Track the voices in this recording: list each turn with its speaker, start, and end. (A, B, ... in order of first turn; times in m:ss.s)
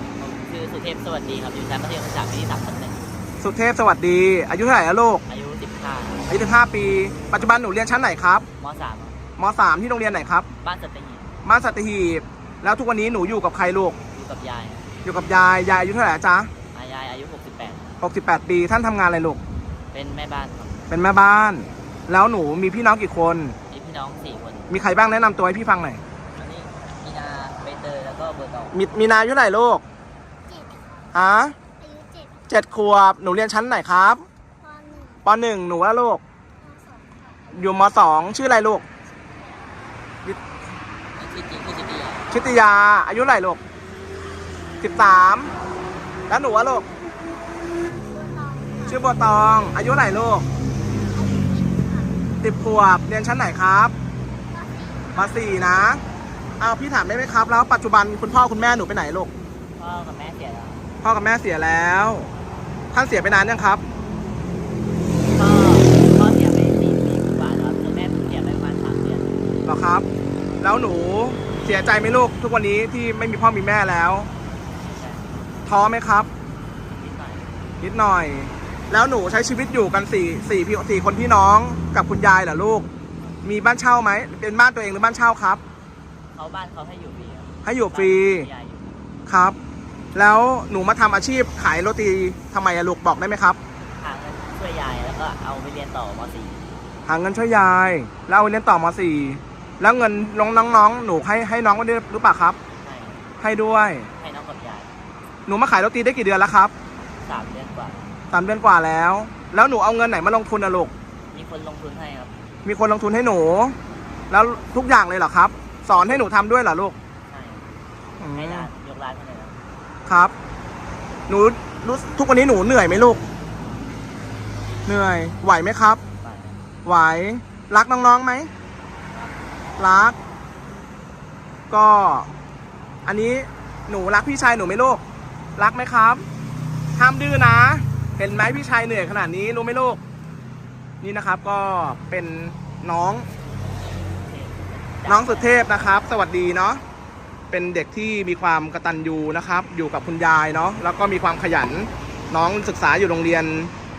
0:00.2-0:03.2 A
0:03.4-0:05.2 B
0:05.3-0:06.3 A
0:06.3-0:08.4 B
0:08.6-0:09.2 A
0:09.4-0:10.5 B
0:10.6-0:11.3 A
0:11.4-0:14.0 B
0:14.1-0:14.8 A
0:15.0-0:16.5 B
0:16.7-0:17.8 A
0:18.0-0:19.4 B
0:19.9-0:20.9 A
0:20.9-0:23.6 B
0:23.7-0:24.7 A
0:24.7-0:26.0 B
0:26.3-0:28.8 A
0:28.7-0:29.8 B
0:30.5-0:31.1 C
0:31.1-0:31.6 B
0:31.8-0:32.4 C
0:32.5-0:34.2 B
0:34.6-0:35.2 C
0:35.2-0:36.2 B
0:36.6-0:37.8 C
0:37.5-0:38.8 B
0:39.2-0:39.8 C
0:41.2-0:42.3 A
0:42.3-0:43.6 B
0:44.8-0:45.5 B
0:46.3-0:46.9 B
0:47.8-0:49.8 C
0:48.8-0:50.4 B
0:50.9-0:52.1 C
0:52.4-0:53.9 B
0:54.5-0:55.6 C
0:55.1-0:56.0 B
0:56.6-0:59.3 B
0:59.8-1:00.8 A
1:01.0-1:02.3 B
1:02.9-1:03.8 B
1:05.3-1:09.3 A
1:09.6-1:10.0 B
1:10.6-1:14.3 B
1:14.7-1:15.6 A
1:15.6-1:16.3 B
1:16.9-1:17.6 A
1:17.8-1:22.9 B
1:23.4-1:25.6 B
1:26.3-1:29.0 A
1:27.6-1:28.5 B
1:29.3-1:29.6 B
1:30.1-1:33.6 B
1:34.0-1:36.6 A
1:37.0-1:42.6 B
1:42.8-1:43.2 A
1:43.4-1:44.1 B
1:44.2-1:44.9 A
1:45.5-1:46.7 B
1:47.2-1:48.1 A
1:48.3-1:50.9 B
1:51.3-1:52.3 A
1:52.6-1:53.8 B
1:54.3-1:57.0 B
1:55.9-1:56.2 A
1:57.3-1:57.7 A
1:58.2-1:58.7 B
1:58.3-1:59.6 A
2:00.0-2:00.3 B
2:01.3-2:03.2 B
2:04.5-2:05.0 A
2:04.8-2:06.0 B
2:06.2-2:06.6 A
2:06.8-2:08.5 B
2:09.1-2:09.4 A
2:09.8-2:10.2 B
2:11.7-2:12.3 B
2:13.0-2:15.0 B
2:15.6-2:16.2 B
2:17.0-2:20.0 B
2:21.0-2:23.3 B
2:23.7-2:26.0 A
2:25.0-2:26.8 B
2:27.5-2:33.7 B